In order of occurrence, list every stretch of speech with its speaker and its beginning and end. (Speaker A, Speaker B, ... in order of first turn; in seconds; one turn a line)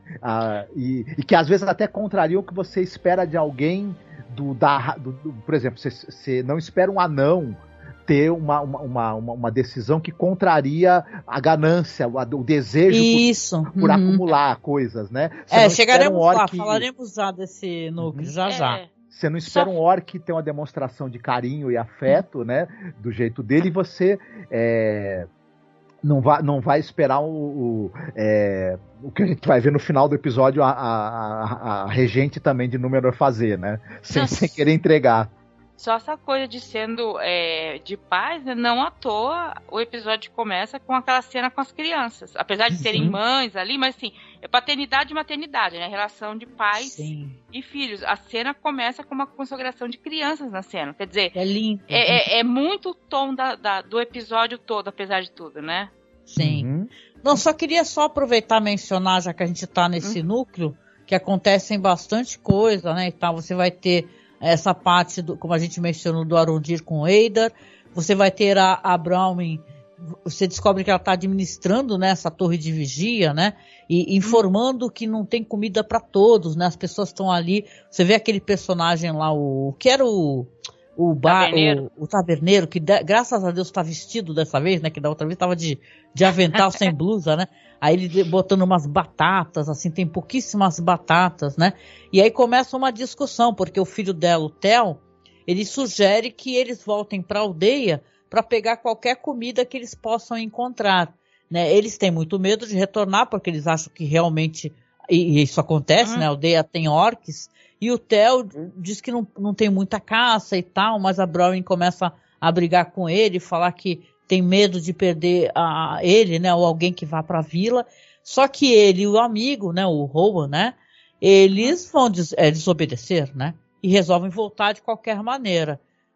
Speaker A: 0.2-16.9
Speaker B: 12.9-14.2
Speaker B: 15.5-18.8
Speaker A: 18.0-18.3
Speaker C: 18.5-18.9
Speaker A: 19.1-25.3
Speaker C: 19.4-19.7
Speaker A: 26.0-35.3
Speaker C: 34.1-34.6
Speaker C: 35.8-51.4
Speaker A: 42.8-43.2
Speaker B: 46.7-47.4
Speaker B: 51.3-52.3
Speaker C: 51.9-55.9
Speaker B: 56.3-56.7
Speaker A: 56.4-56.9
Speaker B: 57.2-125.8
Speaker C: 81.2-81.9
Speaker C: 86.5-86.9
Speaker C: 106.0-106.3